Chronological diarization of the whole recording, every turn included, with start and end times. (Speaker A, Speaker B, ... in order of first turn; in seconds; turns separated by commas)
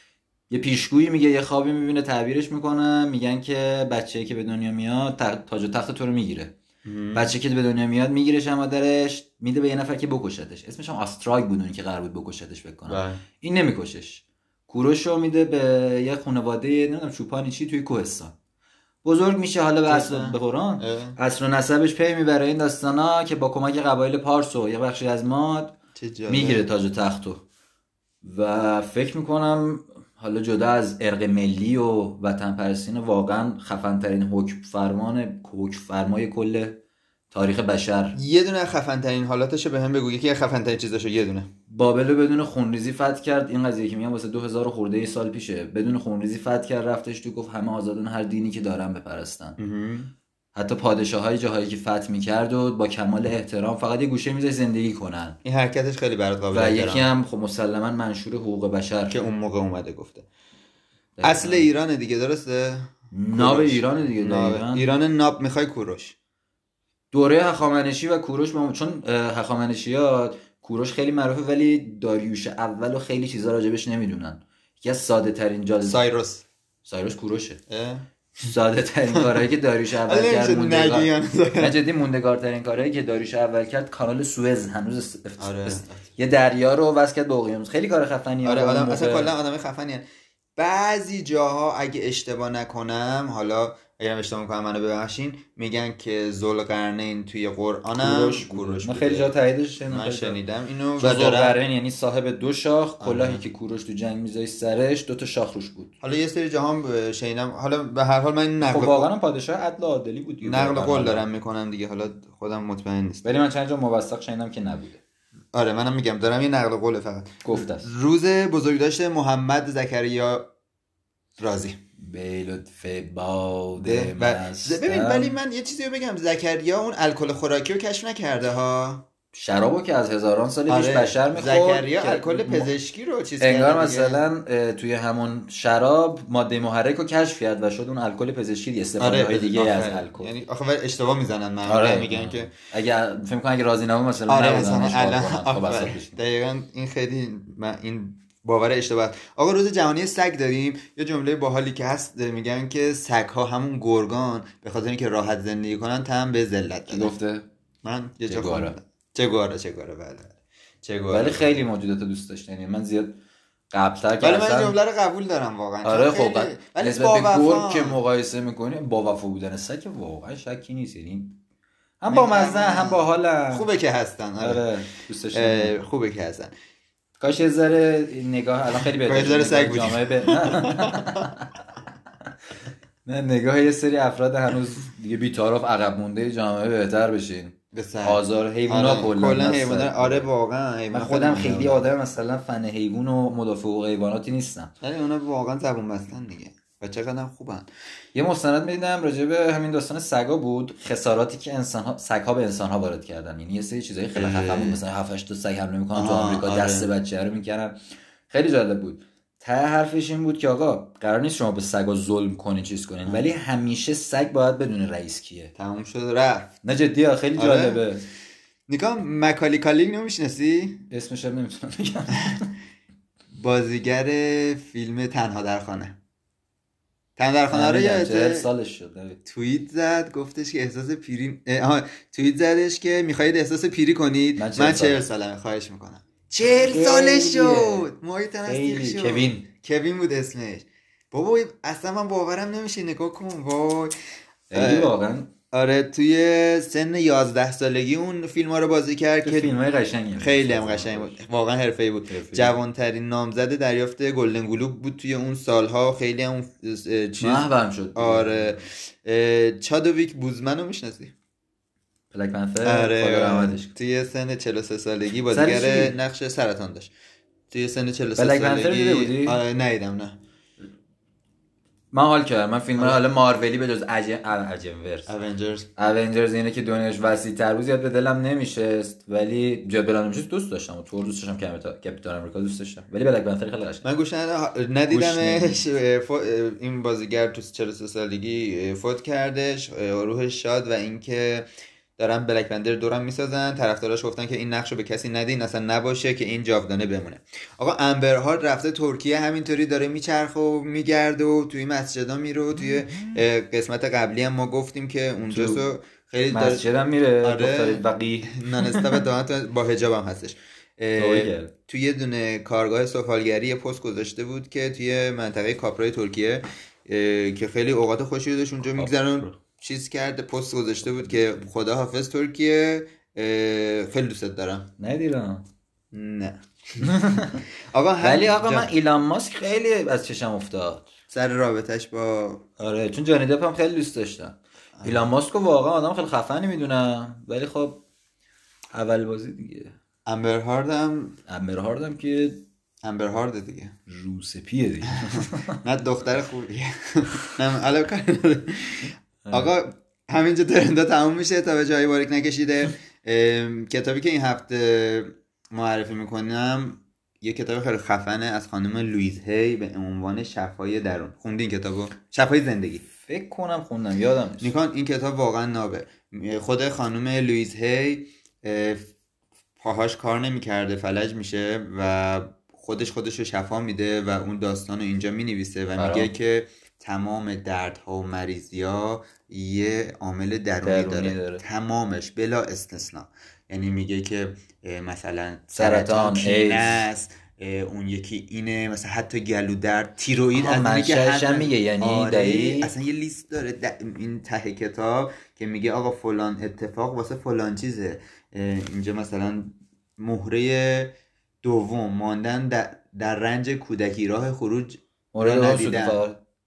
Speaker A: 0.5-6.5, Speaker B: 6.8-7.3, Speaker A: 7.1-18.4, Speaker B: 12.9-13.2, Speaker A: 19.0-25.8, Speaker B: 19.9-21.2, Speaker B: 26.0-26.7, Speaker A: 26.3-27.4, Speaker A: 28.2-38.2, Speaker B: 38.2-41.5, Speaker A: 41.7-49.6, Speaker B: 49.6-50.1, Speaker A: 50.5-55.4, Speaker B: 55.4-57.1, Speaker A: 56.5-59.2, Speaker B: 59.1-60.3, Speaker A: 61.2-61.7, Speaker B: 61.2-66.2, Speaker A: 63.1-64.9, Speaker A: 67.1-76.0, Speaker B: 75.8-76.4, Speaker A: 76.8-77.6, Speaker B: 77.7-78.0, Speaker A: 78.4-89.3, Speaker B: 80.0-81.8, Speaker B: 85.4-86.0, Speaker B: 88.4-90.0, Speaker B: 90.6-99.3, Speaker A: 98.0-100.4, Speaker B: 99.9-101.6, Speaker A: 101.0-105.9, Speaker B: 103.0-103.4, Speaker B: 106.0-109.1, Speaker A: 108.6-111.3, Speaker B: 110.4-113.2, Speaker A: 113.2-115.0, Speaker B: 115.5-120.5, Speaker A: 117.4-117.9, Speaker B: 121.4-121.8, Speaker A: 122.0-125.4, Speaker B: 123.8-129.1, Speaker A: 129.3-132.7, Speaker B: 130.7-134.2, Speaker A: 133.4-140.3, Speaker B: 139.0-142.5, Speaker A: 141.7-146.2, Speaker B: 144.3-157.1, Speaker A: 156.9-157.5, Speaker B: 157.8-161.6, Speaker A: 158.3-158.8, Speaker A: 161.1-163.2, Speaker A: 163.7-164.8, Speaker B: 164.2-168.0, Speaker A: 165.8-171.4, Speaker A: 172.0-173.7, Speaker B: 172.1-174.7, Speaker A: 174.4-175.8, Speaker B: 175.3-176.5, Speaker A: 177.2-181.5, Speaker B: 179.0-181.3, Speaker A: 183.1-190.3, Speaker B: 187.7-191.9, Speaker A: 190.9-194.7, Speaker B: 194.8-197.7, Speaker A: 198.2-207.8, Speaker B: 204.2-204.8, Speaker B: 205.9-206.9, Speaker A: 208.3-215.5, Speaker B: 215.6-216.6, Speaker A: 216.6-218.1, Speaker B: 217.4-217.8, Speaker B: 218.7-220.8, Speaker A: 220.9-222.5, Speaker B: 223.3-226.0, Speaker B: 227.2-228.5, Speaker A: 227.5-229.2, Speaker B: 229.2-243.9, Speaker A: 234.4-235.0, Speaker A: 236.4-237.9, Speaker A: 238.5-239.5, Speaker A: 244.5-245.3, Speaker B: 244.5-244.9, Speaker B: 245.5-249.5, Speaker A: 249.2-251.2, Speaker B: 250.2-261.1, Speaker A: 252.1-252.6, Speaker A: 257.2-258.7, Speaker A: 262.1-263.8, Speaker B: 262.6-266.9, Speaker A: 265.3-265.9, Speaker B: 267.5-270.2, Speaker A: 268.2-269.4, Speaker A: 271.9-275.1, Speaker B: 275.1-275.7, Speaker A: 275.8-283.8, Speaker B: 283.8-291.5, Speaker A: 284.9-285.6, Speaker B: 292.0-306.7, Speaker A: 305.3-305.6, Speaker A: 306.3-309.0, Speaker B: 307.2-324.7, Speaker A: 311.0-311.5, Speaker A: 318.8-319.4, Speaker A: 324.8-325.4, Speaker B: 325.9-326.9, Speaker A: 326.8-327.4, Speaker B: 327.7-328.7, Speaker A: 328.0-330.9, Speaker B: 331.1-332.4, Speaker A: 332.6-337.8, Speaker A: 338.7-339.8, Speaker B: 340.1-341.2, Speaker A: 341.3-342.5, Speaker B: 342.8-343.7, Speaker A: 343.9-345.6, Speaker B: 345.0-362.8, Speaker A: 349.3-349.5, Speaker A: 363.0-364.5, Speaker B: 364.4-368.9, Speaker B: 369.6-406.0, Speaker A: 375.8-376.1, Speaker A: 380.6-381.4, Speaker A: 385.5-386.9, Speaker A: 390.4-392.7, Speaker A: 405.1-406.2